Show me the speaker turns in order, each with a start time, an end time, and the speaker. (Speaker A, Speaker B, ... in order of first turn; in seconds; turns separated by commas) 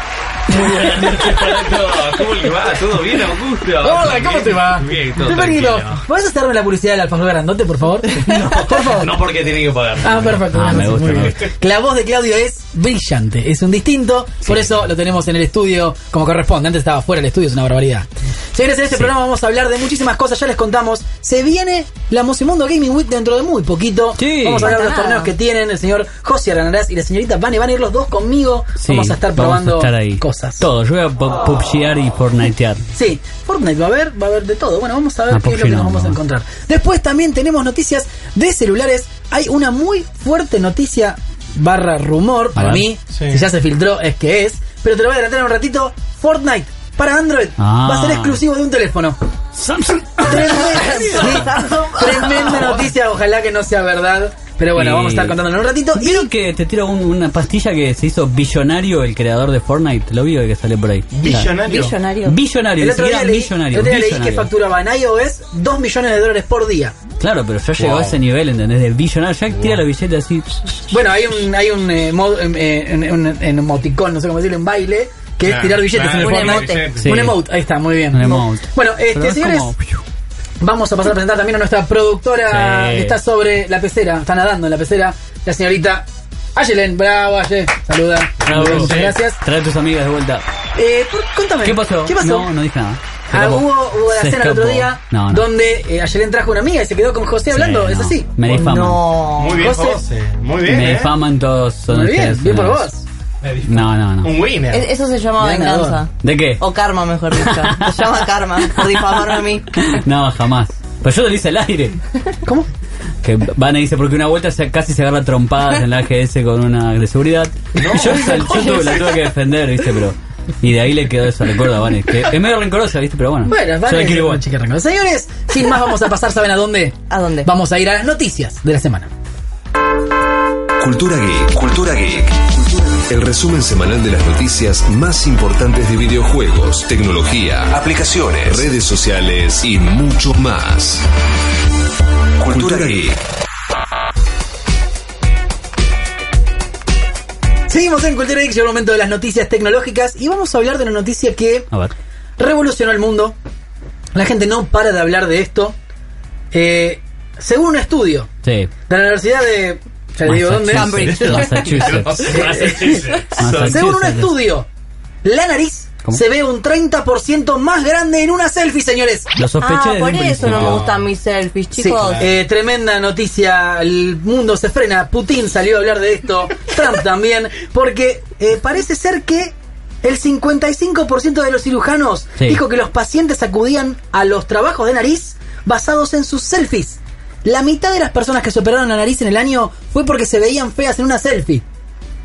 Speaker A: 0.5-2.3, Speaker B: 0.7-6.0, Speaker C: 3.8-9.2, Speaker B: 8.2-10.5, Speaker C: 10.0-30.7, Speaker A: 10.4-11.5, Speaker A: 24.2-24.7, Speaker D: 24.6-25.3, Speaker A: 28.8-32.8, Speaker C: 32.9-49.2, Speaker A: 35.3-36.2, Speaker A: 42.5-42.9, Speaker E: 43.1-43.5, Speaker A: 47.6-48.4, Speaker A: 49.6-50.8, Speaker C: 50.2-56.3, Speaker D: 50.8-52.5, Speaker A: 54.7-55.4, Speaker A: 56.0-61.6, Speaker E: 61.2-62.0, Speaker D: 61.6-62.4, Speaker A: 62.3-64.5, Speaker C: 62.8-67.0, Speaker A: 67.2-70.8, Speaker E: 67.8-68.2, Speaker E: 69.5-69.8, Speaker C: 70.9-79.7, Speaker E: 75.4-77.1, Speaker D: 76.2-76.9, Speaker A: 77.0-77.4, Speaker A: 78.1-80.0, Speaker C: 80.6-89.4, Speaker A: 82.5-83.2, Speaker A: 88.4-90.4, Speaker E: 88.5-89.2, Speaker C: 90.8-92.5, Speaker A: 91.6-95.5, Speaker C: 93.3-98.4, Speaker A: 97.5-99.0, Speaker D: 98.5-99.8, Speaker E: 99.4-101.1, Speaker C: 99.6-100.0, Speaker A: 100.7-102.9, Speaker C: 101.9-103.0, Speaker A: 103.7-104.3, Speaker E: 104.2-104.9, Speaker D: 104.7-109.7, Speaker C: 105.4-106.0, Speaker A: 106.2-106.6, Speaker A: 107.4-107.9, Speaker A: 109.8-112.0, Speaker C: 112.4-112.7, Speaker A: 113.2-124.4, Speaker E: 117.8-119.2, Speaker C: 123.5-129.1, Speaker D: 127.1-127.5, Speaker F: 130.8-141.1, Speaker F: 142.4-143.2, Speaker C: 147.7-151.7, Speaker C: 152.4-153.4, Speaker C: 154.1-155.8, Speaker C: 156.5-158.3, Speaker A: 158.4-158.7, Speaker C: 158.9-161.2, Speaker A: 160.2-162.4, Speaker D: 160.8-161.9, Speaker E: 160.9-163.8, Speaker C: 162.2-164.7, Speaker A: 163.4-164.3, Speaker C: 165.2-169.3, Speaker A: 169.4-170.8, Speaker D: 169.6-172.3, Speaker E: 170.4-171.0, Speaker C: 171.8-191.6, Speaker E: 172.0-172.3